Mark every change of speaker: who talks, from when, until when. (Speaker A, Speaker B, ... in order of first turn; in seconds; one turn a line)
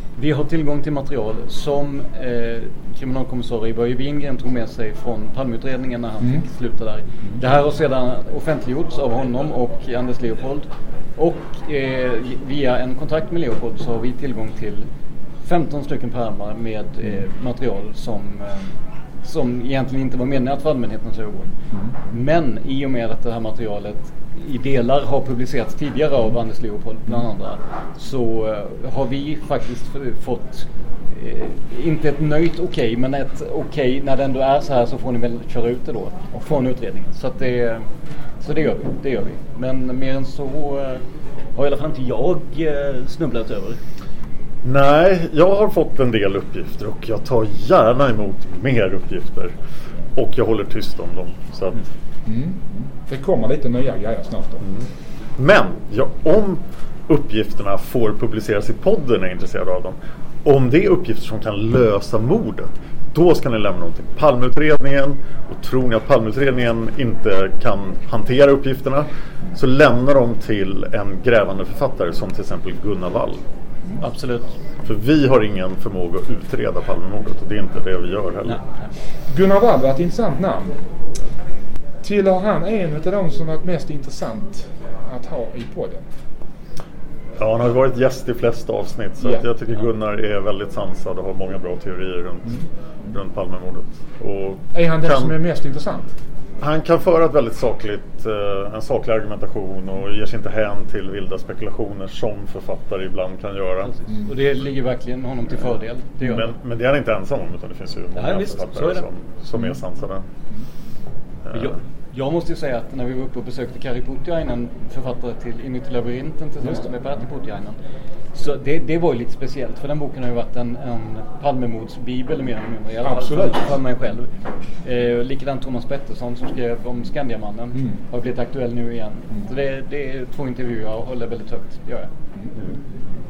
Speaker A: 0.2-14.9
Speaker B: 6.2-6.5
Speaker A: 15.4-21.5
Speaker B: 21.7-22.0
Speaker A: 22.1-37.9
Speaker A: 38.4-43.8
Speaker C: 44.6-49.5
Speaker C: 50.1-51.8
Speaker B: 52.3-54.6
Speaker C: 54.6-73.4
Speaker A: 74.0-74.5
Speaker C: 74.8-78.6
Speaker B: 79.3-80.8
Speaker B: 82.0-86.1
Speaker C: 87.4-95.3
Speaker B: 89.2-89.5
Speaker B: 92.5-93.2
Speaker B: 94.7-96.2
Speaker C: 96.6-103.9
Speaker A: 103.9-106.5
Speaker B: 104.1-104.3
Speaker C: 106.2-110.2
Speaker A: 108.2-109.1
Speaker C: 111.5-111.7
Speaker A: 111.5-117.8
Speaker B: 116.6-117.2
Speaker A: 118.3-124.3
Speaker B: 123.0-123.8
Speaker A: 124.8-132.1
Speaker B: 127.7-128.0